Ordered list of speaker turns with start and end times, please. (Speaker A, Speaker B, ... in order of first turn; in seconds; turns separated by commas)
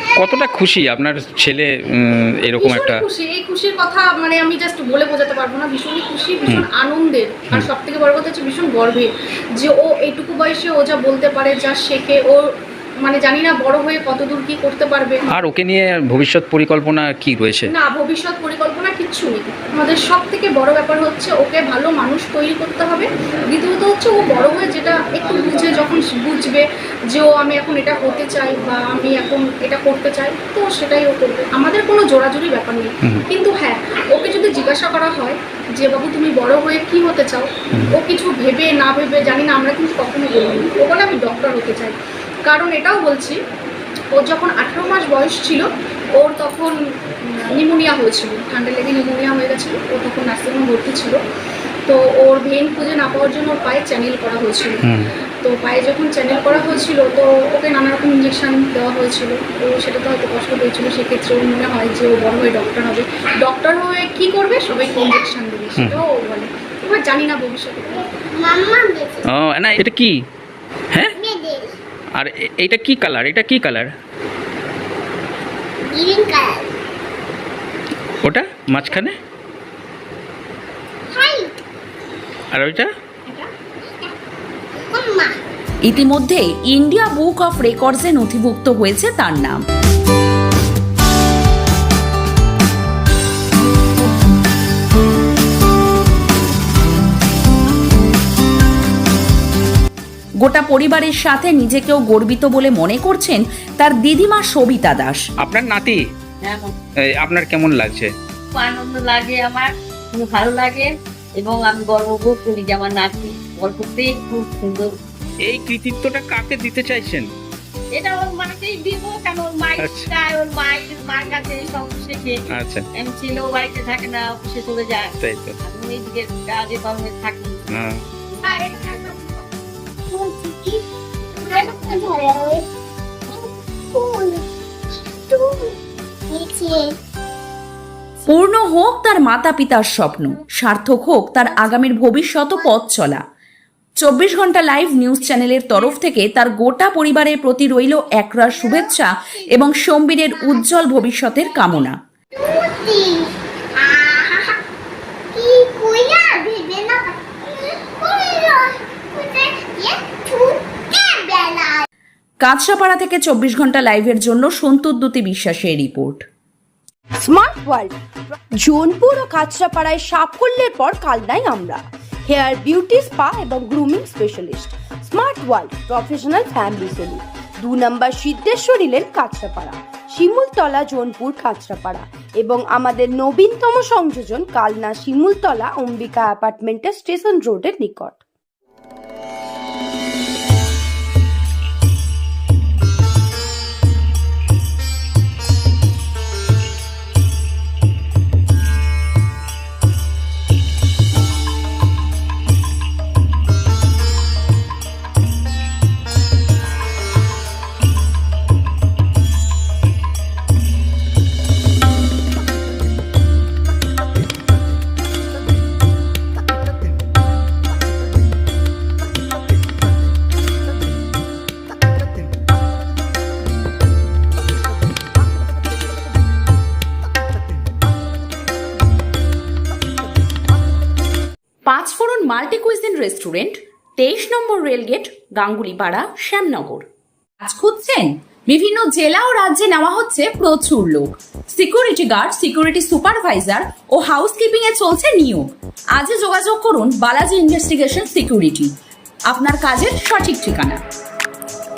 Speaker A: 0.2-3.0, Speaker B: 2.6-12.5, Speaker B: 13.0-15.2, Speaker A: 15.3-17.7, Speaker B: 17.7-43.4, Speaker B: 44.1-51.2, Speaker B: 51.9-54.8, Speaker A: 54.8-55.1, Speaker B: 55.4-68.1, Speaker C: 64.9-65.3, Speaker C: 68.1-69.3, Speaker A: 69.3-70.1, Speaker C: 71.1-71.8, Speaker A: 72.2-73.9, Speaker C: 75.8-76.7, Speaker A: 78.2-79.1, Speaker C: 81.1-81.5, Speaker A: 82.5-82.9, Speaker C: 84.9-85.4, Speaker D: 85.8-89.6, Speaker D: 100.4-105.2, Speaker A: 105.4-106.0, Speaker E: 106.5-106.7, Speaker A: 107.1-108.1, Speaker E: 108.5-114.9, Speaker A: 115.4-117.3, Speaker E: 117.9-122.4, Speaker A: 119.8-120.1, Speaker A: 122.5-122.9, Speaker E: 123.0-125.1, Speaker A: 125.2-125.6, Speaker E: 125.6-127.6, Speaker A: 127.7-128.0, Speaker E: 128.3-128.6, Speaker B: 128.4-129.1, Speaker C: 130.1-132.7, Speaker C: 133.3-134.4, Speaker C: 135.1-135.7, Speaker C: 136.3-136.9, Speaker D: 138.3-143.2, Speaker D: 144.0-152.0, Speaker C: 148.5-149.7, Speaker C: 150.3-154.6, Speaker C: 155.3-161.8, Speaker D: 162.4-166.2, Speaker F: 167.2-167.9, Speaker F: 168.6-188.2, Speaker D: 231.7-236.8, Speaker D: 237.4-248.7, Speaker D: 249.3-250.8